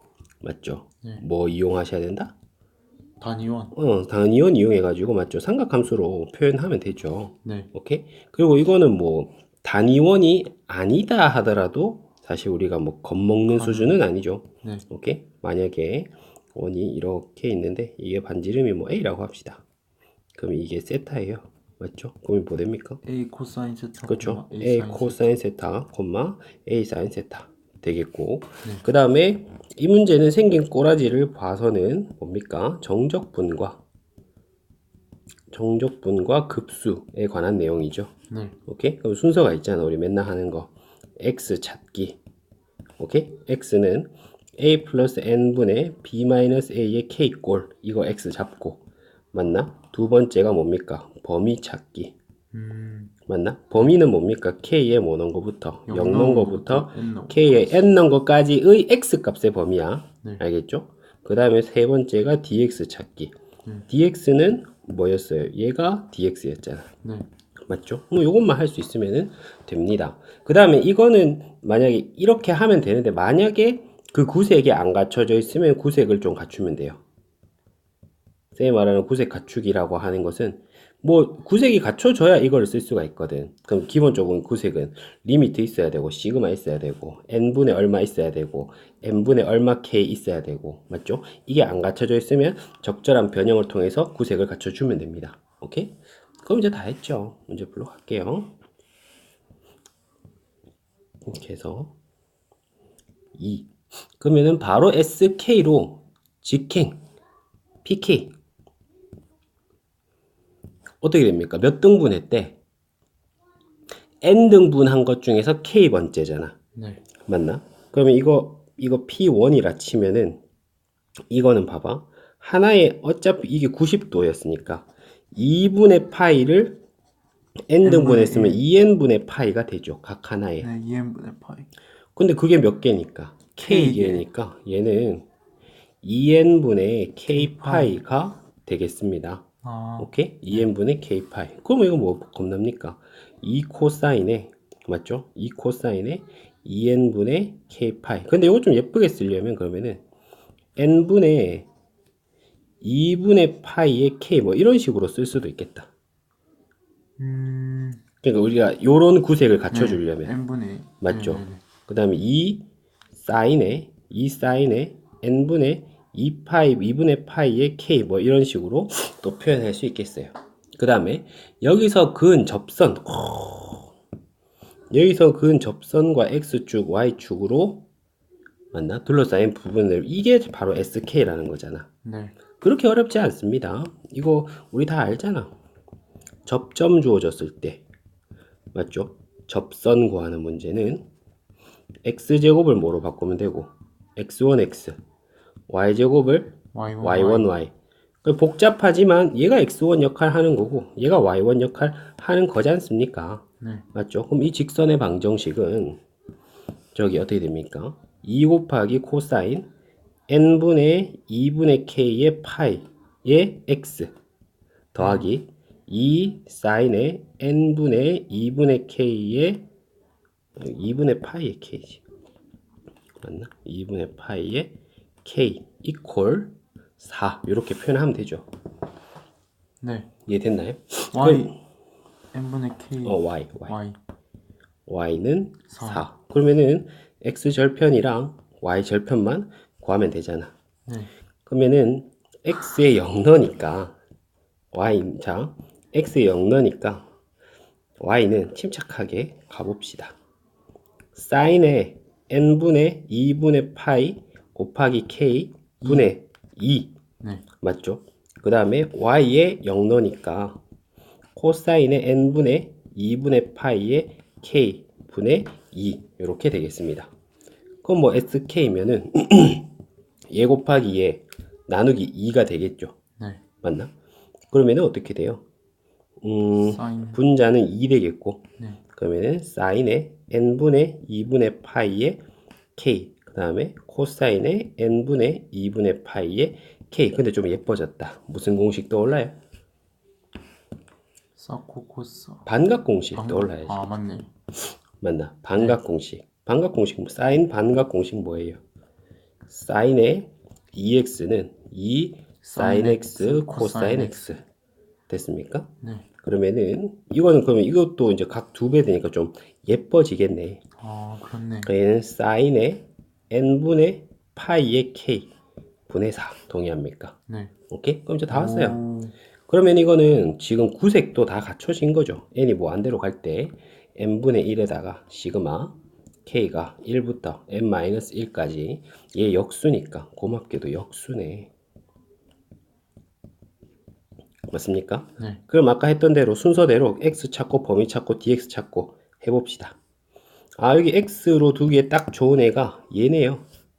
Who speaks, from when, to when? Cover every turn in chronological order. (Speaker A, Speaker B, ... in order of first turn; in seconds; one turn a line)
Speaker A: 0.4-2.3
Speaker B: 3.2-3.7
Speaker A: 3.7-19.6
Speaker B: 7.4-7.7
Speaker B: 13.5-14.0
Speaker A: 20.3-23.0
Speaker B: 23.0-25.3
Speaker A: 24.0-33.8
Speaker A: 35.5-38.1
Speaker B: 38.3-38.6
Speaker A: 38.6-42.2
Speaker A: 43.0-52.1
Speaker B: 52.5-53.1
Speaker A: 53.3-63.3
Speaker B: 55.9-57.9
Speaker A: 63.9-66.9
Speaker A: 67.7-77.0
Speaker A: 78.5-98.5
Speaker A: 101.2-101.9
Speaker A: 103.3-107.0
Speaker A: 107.8-108.3
Speaker A: 111.0-112.6
Speaker A: 114.2-116.5
Speaker B: 116.7-117.0
Speaker A: 117.2-120.4
Speaker A: 121.3-126.8
Speaker A: 127.7-130.7
Speaker B: 127.8-128.6
Speaker B: 130.6-131.7
Speaker A: 132.2-135.2
Speaker B: 133.6-134.2
Speaker A: 136.0-139.4
Speaker B: 137.3-138.0
Speaker B: 139.6-140.7
Speaker A: 140.0-150.0
Speaker A: 150.8-151.7
Speaker A: 152.8-155.9
Speaker B: 157.2-158.0
Speaker A: 158.2-160.3
Speaker B: 159.7-161.6
Speaker A: 161.0-173.9
Speaker A: 174.9-177.8
Speaker A: 178.7-181.9
Speaker B: 182.0-182.3
Speaker A: 182.6-185.5
Speaker A: 186.4-187.8
Speaker A: 188.7-191.0
Speaker A: 192.0-195.0
Speaker A: 195.7-197.7
Speaker B: 196.7-197.5
Speaker A: 198.2-206.0
Speaker A: 206.9-209.7
Speaker A: 210.3-214.1
Speaker A: 214.9-219.7
Speaker B: 215.0-215.3
Speaker A: 220.6-222.0
Speaker A: 223.2-228.4
Speaker B: 229.8-230.1
Speaker A: 230.2-231.5
Speaker B: 231.1-231.5
Speaker B: 232.3-234.0
Speaker A: 233.0-233.8
Speaker A: 234.9-240.5
Speaker B: 235.7-236.0
Speaker A: 241.4-243.9
Speaker A: 244.7-247.0
Speaker A: 248.0-250.1
Speaker A: 251.1-256.9
Speaker B: 255.8-256.1
Speaker A: 257.6-260.6
Speaker A: 261.4-267.1
Speaker A: 267.8-269.7
Speaker A: 270.3-272.9
Speaker A: 273.6-273.9
Speaker A: 274.5-275.4
Speaker A: 276.2-282.2
Speaker B: 276.6-277.2
Speaker A: 282.8-289.3
Speaker B: 291.4-292.4
Speaker A: 292.4-293.8
Speaker B: 293.1-294.3
Speaker A: 295.0-298.6
Speaker A: 299.5-304.4
Speaker B: 302.4-304.2
Speaker A: 305.1-305.7
Speaker B: 305.8-306.1
Speaker A: 306.2-310.6
Speaker B: 310.8-311.7
Speaker A: 311.6-315.3
Speaker A: 315.9-317.1
Speaker A: 317.7-318.8
Speaker B: 318.3-319.1
Speaker A: 319.5-331.5
Speaker A: 334.5-339.8
Speaker A: 340.6-343.4